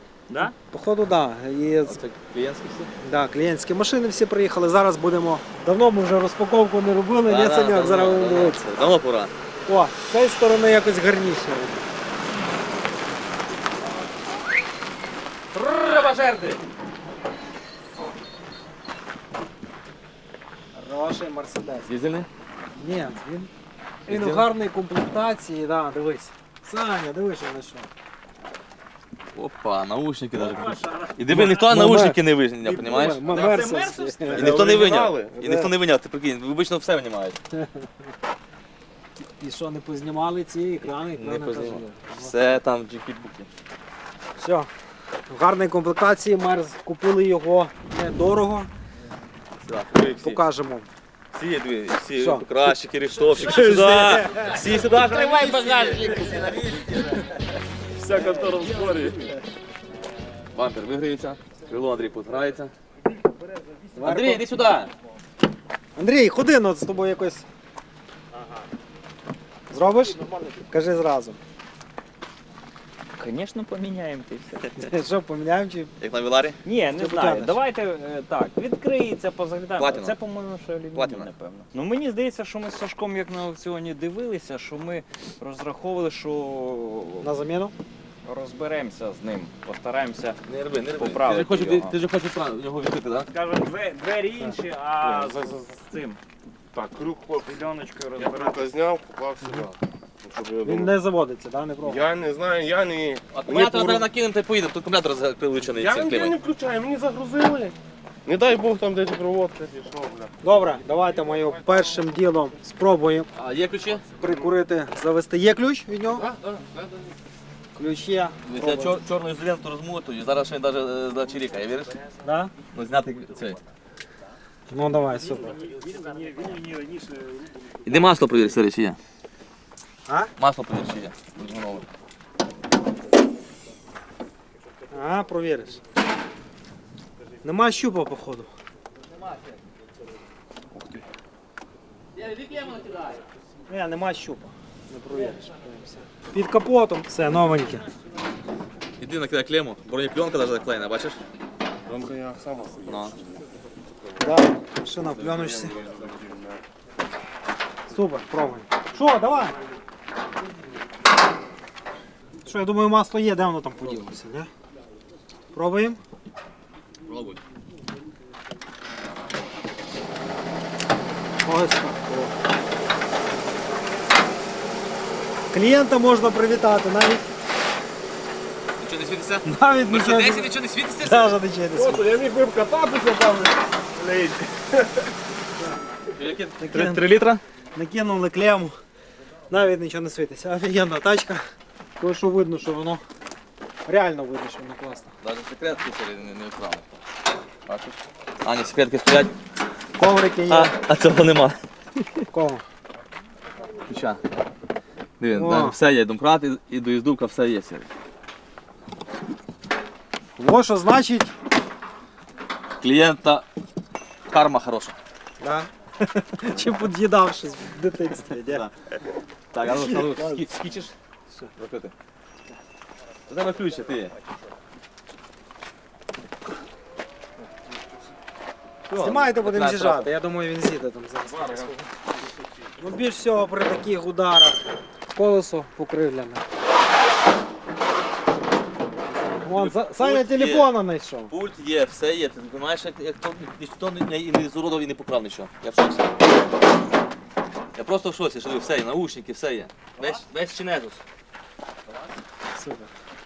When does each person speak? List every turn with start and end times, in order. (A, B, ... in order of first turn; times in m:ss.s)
0:00.3-0:00.5 A
0:00.7-0:02.0 B
0:01.8-0:02.9 C
0:03.0-0:08.6 B
0:07.2-0:09.3 C
0:09.6-0:11.8 B
0:15.5-0:16.6 A
0:20.8-0:21.9 B
0:21.9-0:22.3 C
0:22.8-0:23.5 B
0:24.1-0:24.5 C
0:24.1-0:27.9 B
0:29.3-0:33.3 C
0:30.4-0:31.5 A
0:31.3-0:34.6 B
0:33.2-0:34.5 A
0:34.3-0:35.7 D
0:34.3-0:37.4 C
0:39.2-0:42.4 B
0:41.2-0:43.5 C
0:44.4-0:44.7 B
0:45.3-0:48.7 B
0:49.6-0:50.4 C
0:50.1-0:50.9 B
0:51.3-0:57.3 C
0:52.2-0:52.6 B
0:53.4-0:54.5 B
0:53.6-0:56.4 A
0:58.0-0:59.2 A
1:00.5-1:02.7 C
1:04.0-1:04.5 B
1:04.0-1:04.9 C
1:06.0-1:07.4 B
1:09.7-1:11.4 B
1:13.2-1:14.9 A
1:14.8-1:15.9 B
1:16.0-1:16.6 C
1:16.6-1:27.3 A
1:17.0-1:17.6 B
1:19.8-1:20.2 C
1:21.0-1:21.3 C
1:27.2-1:27.8 B
1:28.2-1:30.4 A
1:30.5-1:33.3 C
1:31.0-1:32.0 A
1:33.3-1:36.2 A
1:35.0-1:35.5 D
1:36.7-1:37.5 D
1:37.4-1:38.7 A
1:38.2-1:40.9 D
1:40.6-1:42.1 B
1:41.8-1:44.1 D
1:43.3-1:46.4 C
1:45.7-1:50.3 D
1:50.4-1:53.3 B
1:53.4-1:54.0 C
1:54.2-1:56.3 B
1:56.3-1:56.9 D
1:57.7-1:59.0 B
1:58.5-2:02.0 C
2:02.2-2:02.5 B
2:02.7-2:03.6 C
2:04.7-2:05.6 B
2:05.6-2:07.6 A
2:07.8-2:09.0 C
2:10.1-2:10.3 B
2:10.4-2:11.8 C
2:14.9-2:15.8 B
2:17.4-2:18.5 B
2:20.8-2:21.0 D
2:22.2-2:23.0 C
2:23.7-2:27.8 B
2:29.0-2:31.2 C
2:31.8-2:33.1 D
2:32.9-2:33.2 C
2:34.2-2:35.8 B
2:35.6-2:36.6 D
2:37.9-2:39.6 B
2:42.4-2:44.5 B
2:45.5-2:46.0 B
2:47.1-2:47.4 C
2:51.4-2:52.3 B
2:55.5-2:57.3 B
2:58.8-3:01.4 C
2:59.4-3:02.1 B
3:01.7-3:04.8 D
3:06.1-3:07.4 C
3:06.6-3:07.1 B
3:07.7-3:08.8 B
3:09.5-3:11.4 B
3:12.0-3:13.0 B
3:13.8-3:15.1 B
3:15.2-3:16.8 C
3:17.7-3:19.3 C
3:20.0-3:20.8 B
3:20.5-3:21.6 C
3:22.3-3:22.6 B
3:23.9-3:24.2 C
3:25.2-3:27.9 C
3:25.3-3:25.8 B
3:30.4-3:31.3 B
3:32.8-3:33.4 C
3:34.3-3:34.9 C
3:35.4-3:38.7 B
3:38.3-3:38.7 C
3:39.5-3:40.9 C
3:39.7-3:40.4 B
3:41.6-3:41.9 C
3:43.3-3:44.2 C
3:48.9-3:50.1 C
3:49.0-3:51.9 B
3:52.8-3:54.6 B
3:55.1-3:56.4 B
3:59.4-4:01.3 B
3:59.4-4:00.7 C
4:01.3-4:06.2 C
4:07.8-4:11.0 C
4:12.6-4:12.9 B